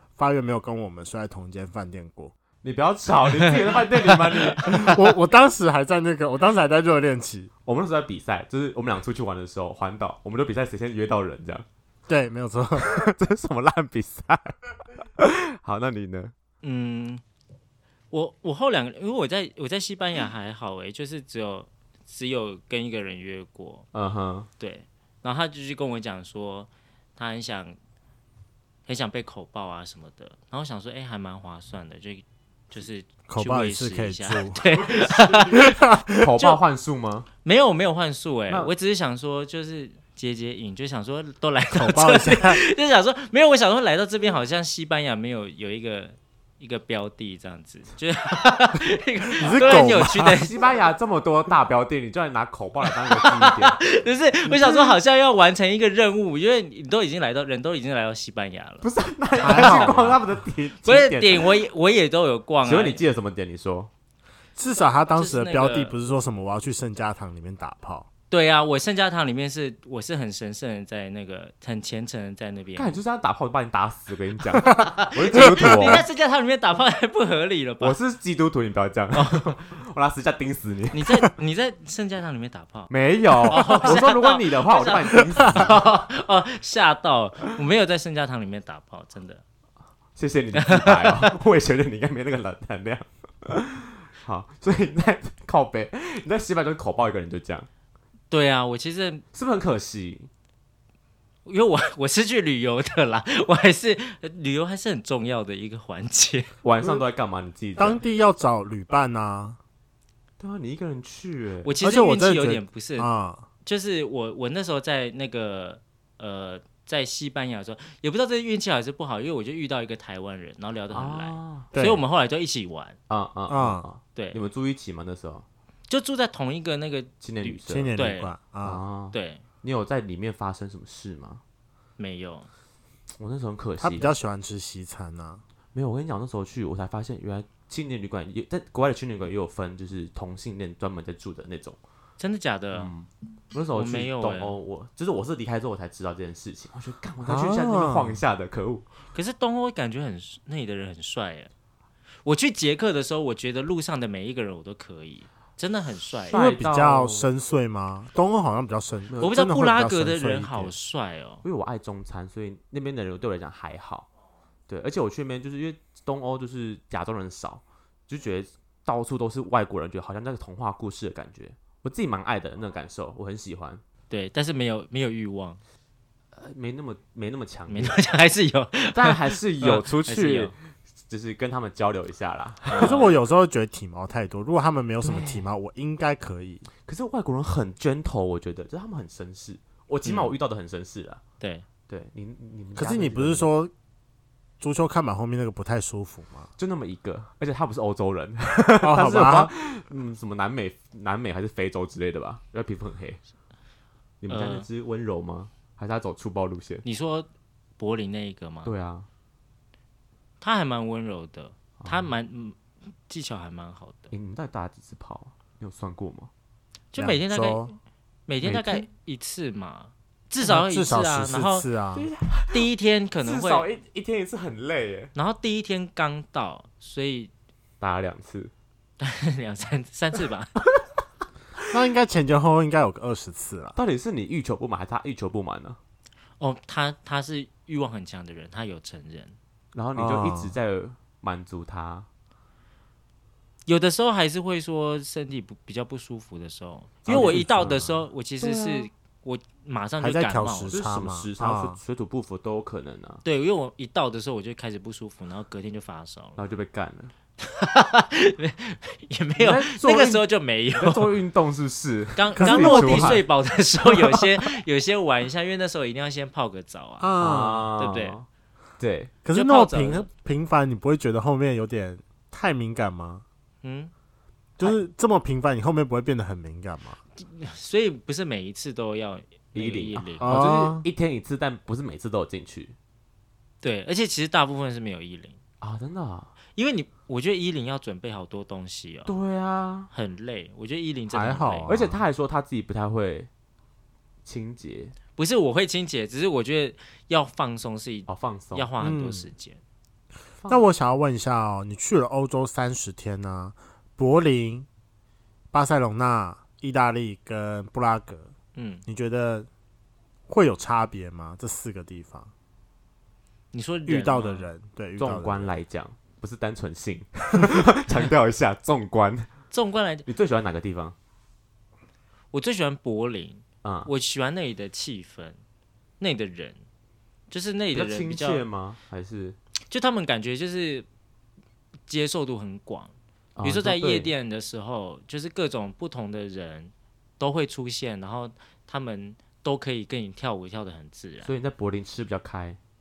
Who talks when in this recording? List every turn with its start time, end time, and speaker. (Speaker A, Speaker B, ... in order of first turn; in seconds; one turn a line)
Speaker A: 0.2-2.3
Speaker B: 2.6-5.0
Speaker C: 3.4-3.7
Speaker A: 4.7-7.5
Speaker B: 7.7-11.7
Speaker A: 12.1-13.1
Speaker B: 12.8-16.3
Speaker C: 16.6-17.2
Speaker C: 18.1-23.9
Speaker B: 23.9-24.5
Speaker C: 24.6-27.8
Speaker C: 28.9-35.8
Speaker A: 33.3-34.6
Speaker B: 34.6-37.3
Speaker A: 35.5-36.3
Speaker C: 37.4-50.5
Speaker A: 41.7-42.6
Speaker A: 49.4-50.5
Speaker B: 49.5-53.8
Speaker C: 52.9-58.9
Speaker B: 54.5-55.0
Speaker B: 58.8-61.6
Speaker A: 59.4-60.2
Speaker C: 59.4-60.0
Speaker C: 60.8-63.0
Speaker B: 62.6-63.9
Speaker A: 64.6-68.1
Speaker C: 65.2-66.0
Speaker C: 68.3-73.0
Speaker B: 72.8-76.0
Speaker C: 74.7-78.0
Speaker A: 75.7-75.9
Speaker B: 77.8-81.0
Speaker C: 79.1-79.5
Speaker C: 80.9-82.9
Speaker B: 82.9-85.8
Speaker C: 83.5-89.4
Speaker A: 85.4-85.7
Speaker B: 90.2-97.7
Speaker C: 90.5-91.3
Speaker C: 98.3-99.2
Speaker B: 99.3-100.3
Speaker C: 101.5-106.5
Speaker B: 106.6-108.0
Speaker A: 107.8-109.6
Speaker B: 110.4-111.7
Speaker C: 111.6-113.1
Speaker A: 111.8-113.5
Speaker C: 113.7-123.0
Speaker B: 120.9-121.7
Speaker A: 121.7-122.0
Speaker B: 123.1-125.5
Speaker A: 123.5-123.9
Speaker C: 125.9-128.3
Speaker B: 127.2-127.9
Speaker A: 127.7-128.8
Speaker B: 128.6-131.4
Speaker C: 129.1-129.4
Speaker C: 132.0-132.5
Speaker B: 133.2-134.1
Speaker A: 133.8-135.4
Speaker B: 135.7-141.8
Speaker C: 142.2-142.9
Speaker B: 142.7-148.8
Speaker C: 143.7-144.6
Speaker A: 147.2-148.2
Speaker C: 149.1-151.5
Speaker C: 152.2-156.4
Speaker B: 156.3-157.3
Speaker A: 156.3-160.7
Speaker B: 159.1-159.5
Speaker C: 159.2-161.4
Speaker B: 161.4-164.1
Speaker B: 164.7-173.8
Speaker C: 174.1-175.6
Speaker B: 176.3-178.0
Speaker C: 177.7-180.5
Speaker B: 178.9-183.1
Speaker C: 182.7-183.2
Speaker A: 182.8-186.7
Speaker B: 185.1-185.4
Speaker B: 186.8-191.2
Speaker C: 191.4-191.7
Speaker B: 191.9-193.5
Speaker A: 192.8-193.7
Speaker A: 194.6-196.5
Speaker B: 196.6-203.2
Speaker A: 198.8-199.5
Speaker B: 204.2-206.8
Speaker C: 204.3-204.7
Speaker C: 206.8-207.3
Speaker C: 207.8-208.7
Speaker B: 208.7-209.1
Speaker C: 210.4-214.1
Speaker B: 211.8-212.1
Speaker B: 214.1-216.3
Speaker C: 216.9-217.7
Speaker A: 217.0-217.7
Speaker C: 218.3-221.7
Speaker B: 218.4-218.9
Speaker A: 220.4-222.1
Speaker B: 221.9-222.7
Speaker C: 222.5-223.7
Speaker B: 223.2-225.1
Speaker C: 225.2-227.3
Speaker B: 227.8-228.5
Speaker C: 229.0-230.6
Speaker A: 231.7-233.8
Speaker B: 233.8-235.8
Speaker C: 236.4-239.4
Speaker B: 239.7-242.1
Speaker A: 239.9-240.6
Speaker C: 243.7-250.8
Speaker B: 247.1-248.9
Speaker A: 247.1-247.5
Speaker A: 250.0-251.8
Speaker B: 250.7-253.2
Speaker C: 253.2-256.4
Speaker B: 256.4-257.1
Speaker C: 257.4-261.2
Speaker B: 259.4-263.3
Speaker C: 262.2-267.1
Speaker A: 262.4-263.2
Speaker A: 267.0-267.7
Speaker B: 267.2-268.3
Speaker C: 267.8-268.1
Speaker B: 268.8-269.1
Speaker A: 269.2-273.2
Speaker C: 269.3-270.1
Speaker C: 273.6-273.9
Speaker A: 274.6-277.0
Speaker C: 277.2-280.4
Speaker B: 279.5-282.8
Speaker A: 280.2-280.9
Speaker C: 283.6-285.4
Speaker B: 285.6-286.3
Speaker C: 286.6-289.1
Speaker B: 289.1-289.9
Speaker C: 289.9-291.7
Speaker A: 291.1-292.0
Speaker B: 291.7-293.3
Speaker B: 294.2-295.0
Speaker C: 295.2-299.6
Speaker B: 298.1-298.7
Speaker A: 298.8-299.3
Speaker A: 300.5-304.7
Speaker A: 305.5-308.3
Speaker C: 308.6-308.9
Speaker A: 308.9-309.5
Speaker A: 310.3-312.3
Speaker C: 313.5-314.5
Speaker A: 313.9-315.6
Speaker B: 315.0-319.3
Speaker C: 319.5-320.1
Speaker B: 320.1-320.9
Speaker C: 322.3-325.4
Speaker B: 323.6-323.9
Speaker C: 326.0-326.6
Speaker C: 327.3-328.4
Speaker B: 327.7-329.4
Speaker C: 329.7-330.9
Speaker C: 331.9-341.3
Speaker B: 333.4-334.1
Speaker B: 341.2-342.6